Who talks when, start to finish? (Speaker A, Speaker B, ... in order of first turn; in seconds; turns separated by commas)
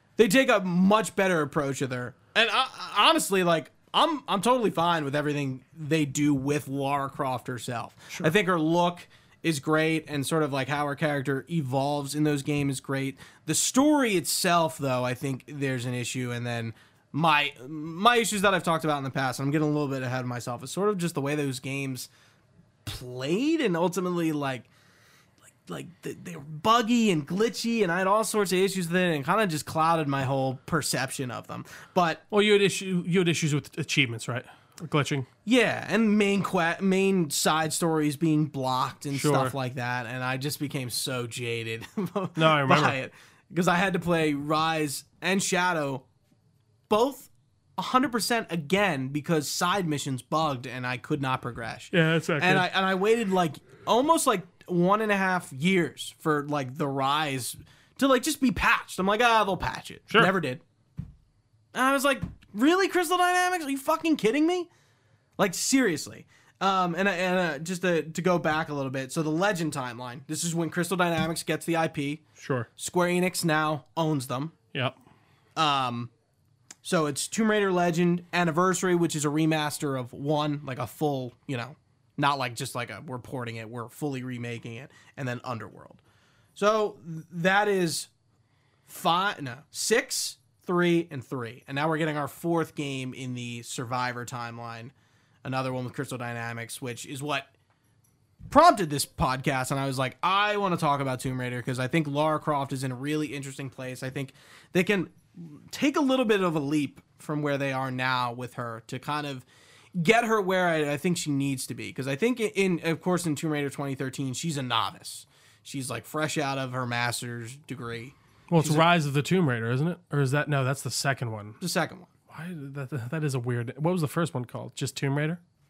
Speaker A: 0.2-22.1, Speaker A: 22.9-24.7, Speaker A: 25.6-32.2, Speaker B: 32.3-35.3, Speaker A: 35.4-46.1, Speaker B: 39.1-39.5, Speaker B: 42.4-43.0, Speaker A: 46.9-60.6, Speaker B: 51.9-52.7, Speaker A: 61.7-64.7, Speaker A: 65.4-72.2, Speaker B: 72.4-72.7, Speaker A: 72.8-74.5, Speaker A: 75.6-76.1, Speaker A: 76.8-86.0, Speaker A: 86.6-88.1, Speaker A: 88.9-94.9, Speaker A: 95.4-97.5, Speaker A: 98.5-118.9, Speaker B: 118.5-121.6, Speaker A: 121.6-122.1, Speaker B: 122.3-125.4